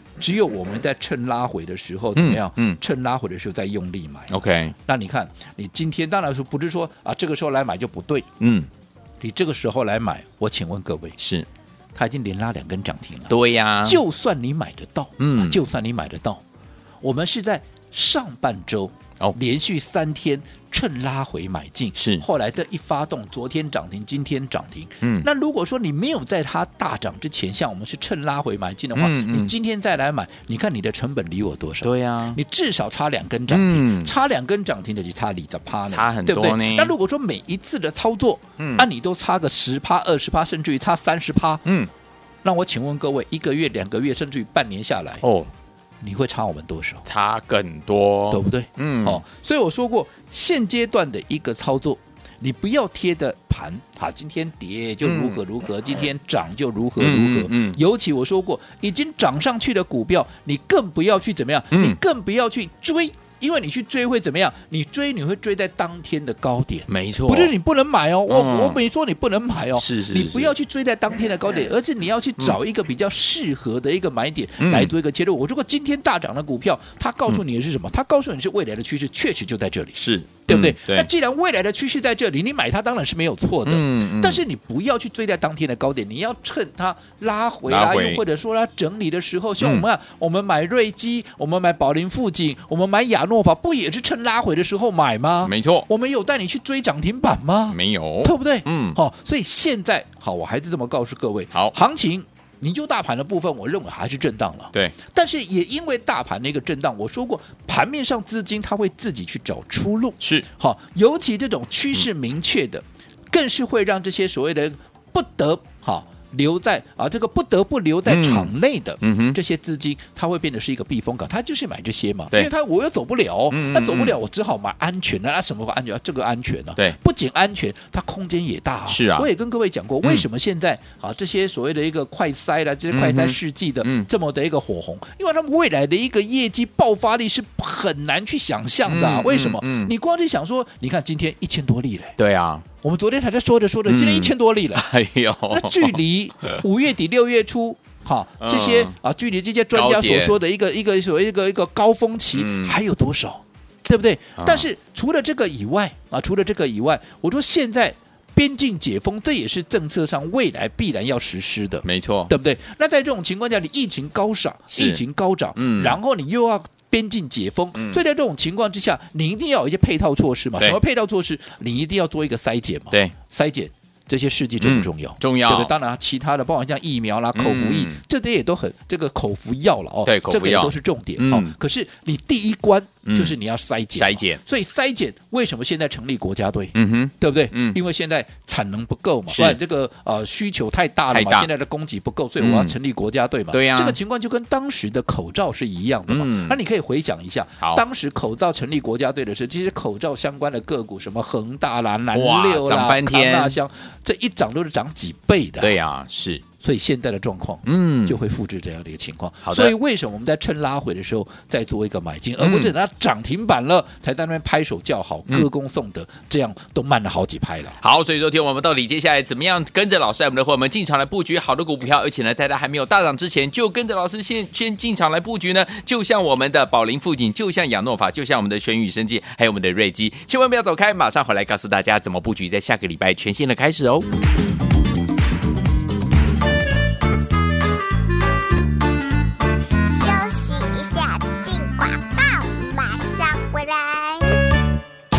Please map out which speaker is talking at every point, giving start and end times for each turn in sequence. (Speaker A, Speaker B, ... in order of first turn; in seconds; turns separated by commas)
Speaker A: 0.2-8.3, Speaker B: 2.2-2.8, Speaker B: 4.3-4.8, Speaker B: 8.4-8.7, Speaker A: 9.2-11.2, Speaker B: 11.2-11.5, Speaker A: 11.9-16.4, Speaker B: 13.3-14.0, Speaker B: 15.2-15.6, Speaker A: 17.0-41.6, Speaker B: 22.0-22.2, Speaker B: 25.0-25.3, Speaker B: 29.0-29.5, Speaker B: 31.8-32.4, Speaker B: 33.5-34.1, Speaker B: 35.9-36.9, Speaker B: 38.6-38.9, Speaker B: 41.6-41.9, Speaker A: 42.4-45.2, Speaker B: 45.2-45.5, Speaker A: 46.0-47.1, Speaker B: 47.0-49.2, Speaker A: 48.3-142.2, Speaker B: 55.0-55.4, Speaker B: 57.0-57.8, Speaker B: 61.7-62.0, Speaker B: 66.9-67.5, Speaker B: 68.3-68.8, Speaker B: 69.8-70.5, Speaker B: 74.6-74.9, Speaker B: 80.0-81.1, Speaker B: 83.7-84.4, Speaker B: 87.7-88.2, Speaker B: 89.6-89.9, Speaker B: 95.4-95.9, Speaker B: 97.7-99.0, Speaker B: 110.2-110.5, Speaker B: 118.1-119.4, Speaker B: 123.5-124.2, Speaker B: 128.9-129.3, Speaker B: 132.9-134.1, Speaker B: 138.9-139.9, Speaker B: 142.2-142.7, Speaker A: 142.8-144.8, Speaker B: 143.9-146.6, Speaker A: 145.5-205.8, Speaker B: 148.4-148.9, Speaker B: 149.7-150.4, Speaker B: 152.3-152.8, Speaker B: 154.4-154.7, Speaker B: 161.8-162.3, Speaker B: 164.7-165.0, Speaker B: 165.6-166.0, Speaker B: 167.8-168.0, Speaker B: 174.6-175.7, Speaker B: 177.3-178.0, Speaker B: 180.0-181.6, Speaker B: 183.1-183.3, Speaker B: 183.9-184.4, Speaker B: 186.8-187.8, Speaker B: 189.3-189.6, Speaker B: 191.1-191.5, Speaker B: 192.4-192.8, Speaker B: 193.5-194.0, Speaker B: 196.1-196.6, Speaker B: 202.1-203.6, Speaker B: 205.6-206.4, Speaker A: 206.6-217.8, Speaker B: 207.7-208.2, Speaker B: 209.4-209.8, Speaker B: 212.4-212.7, Speaker B: 217.8-234.1, Speaker C: 239.8-244.4